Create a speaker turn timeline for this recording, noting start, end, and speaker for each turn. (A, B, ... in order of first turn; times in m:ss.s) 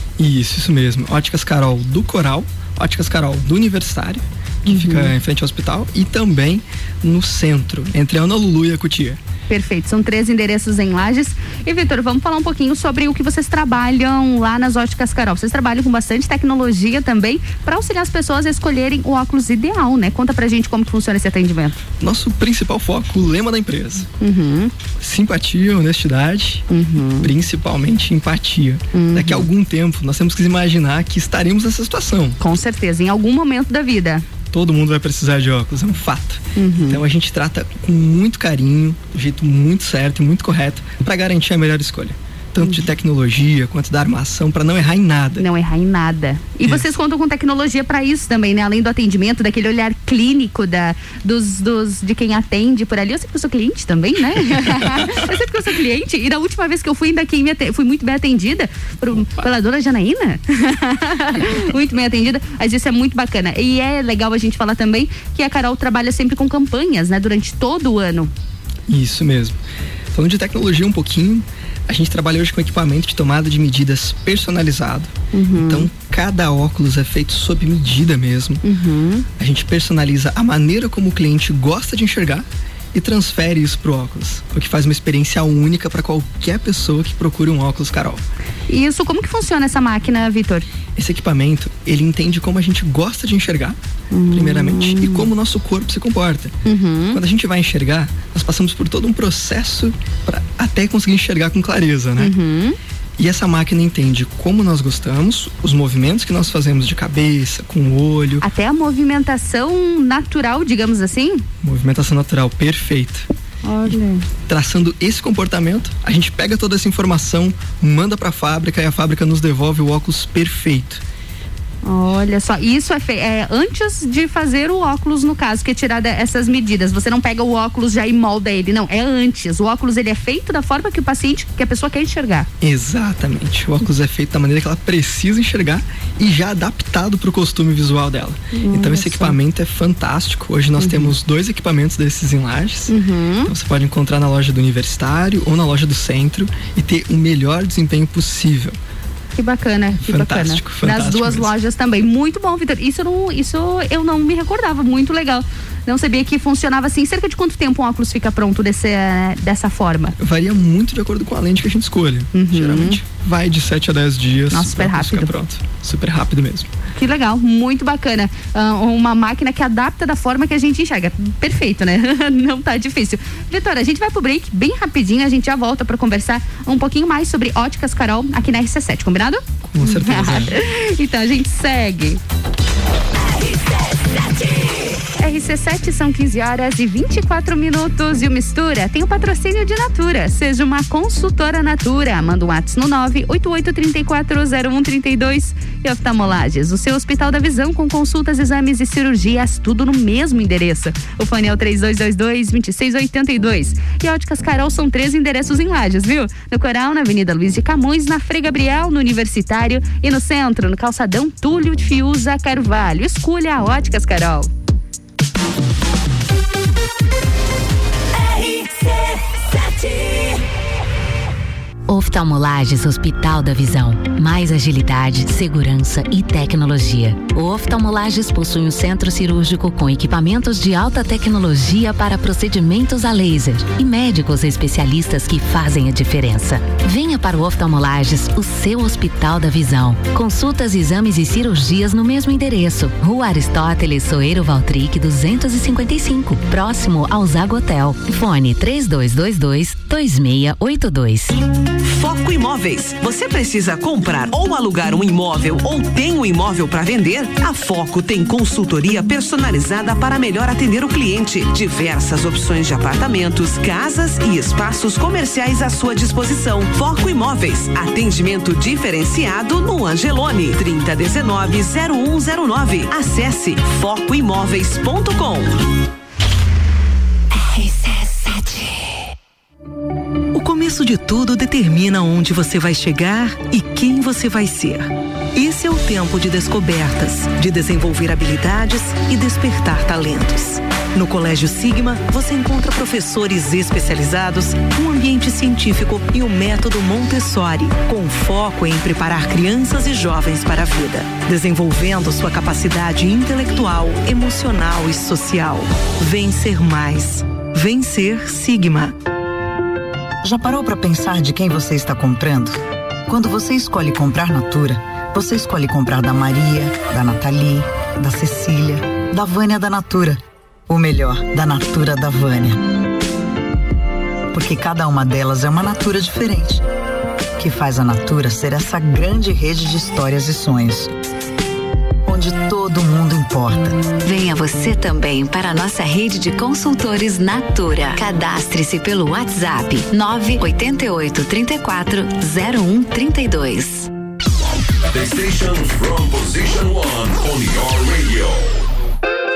0:00.2-0:09.2 A
0:04.7-0:05.1 B
0:09.5-0:21.8 B
0:22.0-0:24.1 A
0:24.2-0:24.7 B
0:25.0-0:26.7 A
0:26.7-0:27.3 B
0:27.2-0:32.4 A
0:28.9-0:29.5 B
0:32.4-0:34.2 B
0:34.5-0:45.4 A
0:36.6-0:37.0 B
0:45.4-1:08.3 B
0:46.6-0:46.9 A
1:08.9-1:09.6 A
1:10.1-1:18.6 A
1:15.3-1:15.9 B
1:18.6-1:19.3 B
1:19.4-1:28.2 A
1:28.7-1:30.7 B
1:31.0-1:33.8 A
1:34.1-1:35.3 B
1:34.3-1:36.6 A
1:36.7-1:37.2 B
1:37.1-1:42.3 A
1:42.2-1:42.8 B
1:43.2-1:48.4 A
1:48.4-1:51.4 B
1:51.6-1:53.3 A
1:53.6-1:54.2 B
1:54.5-2:01.0 A
2:01.8-2:12.5 B
2:12.6-2:23.0 A
2:18.6-2:19.4 B
2:20.8-2:21.1 B
2:22.9-2:23.5 B
2:23.5-2:28.8 A
2:29.4-2:40.1 B
2:30.1-2:31.5 A
2:40.2-2:46.7 A
2:42.3-2:43.0 B
2:44.5-2:45.3 B
2:47.0-3:02.2 B
2:59.7-3:00.5 A
3:05.2-3:34.5 B
3:41.9-4:11.3 C
4:12.0-4:35.4 D
4:40.3-5:08.9 E
5:10.2-5:22.6 F
5:24.3-5:26.6 F
5:27.4-5:30.9 F
5:32.1-5:33.9 F
5:34.0-5:43.9 C
5:45.0-5:48.4 G